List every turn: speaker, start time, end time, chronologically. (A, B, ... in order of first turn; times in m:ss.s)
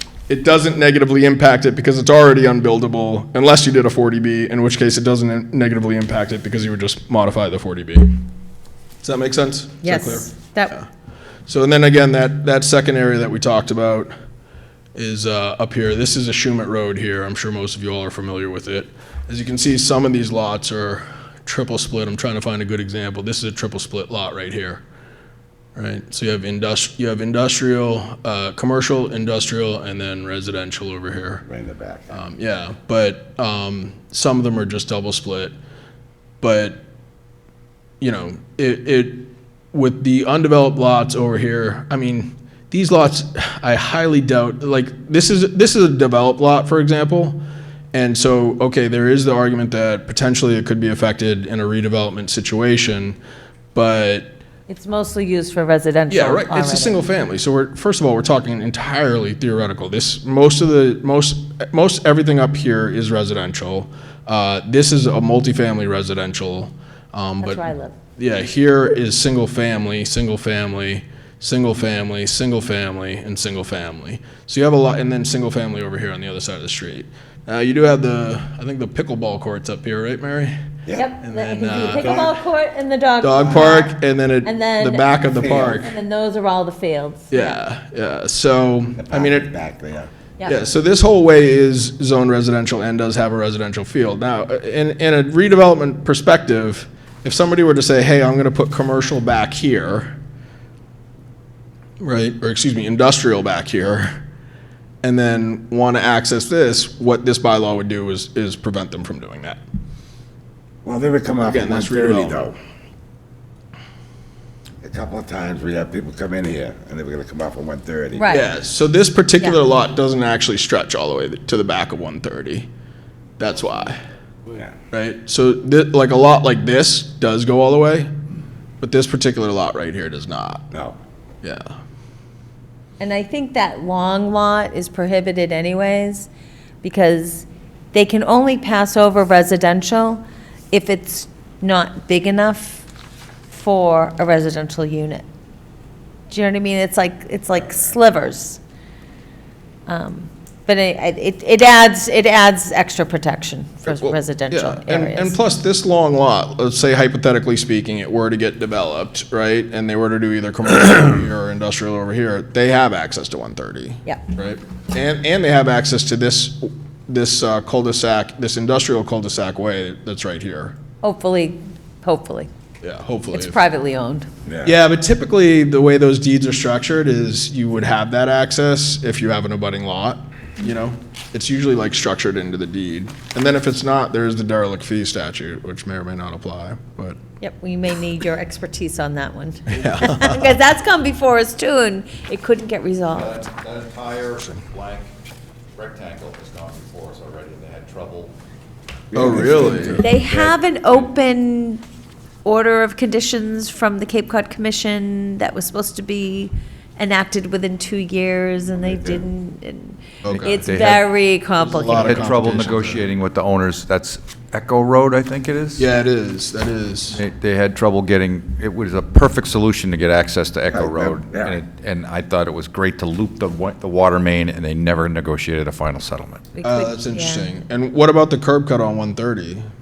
0:00.3-0:08.1 A
0:09.0-0:10.9 A
0:09.8-0:10.7 B
0:11.5-0:14.1 A
0:14.9-0:24.8 A
0:25.8-0:31.4 A
0:31.4-0:32.1 C
0:32.1-0:35.5 A
0:36.4-0:36.8 A
0:38.0-0:47.4 A
0:47.9-0:53.2 A
0:53.7-0:54.3 A
0:54.7-0:57.0 B
0:56.1-1:07.6 A
1:07.4-1:08.0 B
1:08.2-1:20.5 A
1:20.8-1:21.1 C
1:20.9-1:27.6 B
1:21.2-1:22.2 A
1:21.9-1:22.3 C
1:23.2-1:25.9 A
1:25.3-1:25.8 C
1:27.3-1:29.5 A
1:29.0-1:30.1 C
1:30.4-1:40.1 A
1:42.0-1:44.1 A
1:45.0-1:49.6 A
1:50.8-1:52.5 C
1:51.4-1:52.6 A
1:54.8-1:58.3 C
1:58.1-1:58.5 B
1:58.3-2:02.7 A
2:03.4-2:04.0 A
2:04.9-2:08.1 A
2:08.8-2:10.6 A
2:10.7-2:11.0 C
2:11.4-2:11.7 A
2:13.0-2:16.3 B
2:16.8-2:22.8 B
2:23.5-2:25.2 B
2:26.3-2:28.6 B
2:29.9-2:35.4 B
2:33.8-2:50.8 A
2:51.0-2:52.5 B
2:52.8-2:53.6 A
2:53.3-2:54.3 B
2:54.4-2:54.7 C
2:54.6-3:07.2 A
3:07.4-3:13.4 B
3:09.7-3:10.3 A
3:13.1-3:15.1 D
3:15.7-3:18.3 D
3:19.1-3:20.2 C
3:19.1-3:20.1 A
3:19.2-3:20.6 D
3:20.0-3:21.8 B
3:22.4-3:32.3 B
3:28.8-3:29.2 C
3:30.2-3:30.6 A
3:30.2-3:31.1 D
3:31.6-3:33.0 A
3:31.9-3:35.8 D
3:35.8-3:37.2 A
3:37.1-3:46.4 D
3:40.7-3:41.6 C
3:46.5-3:47.5 B
3:46.6-3:49.7 A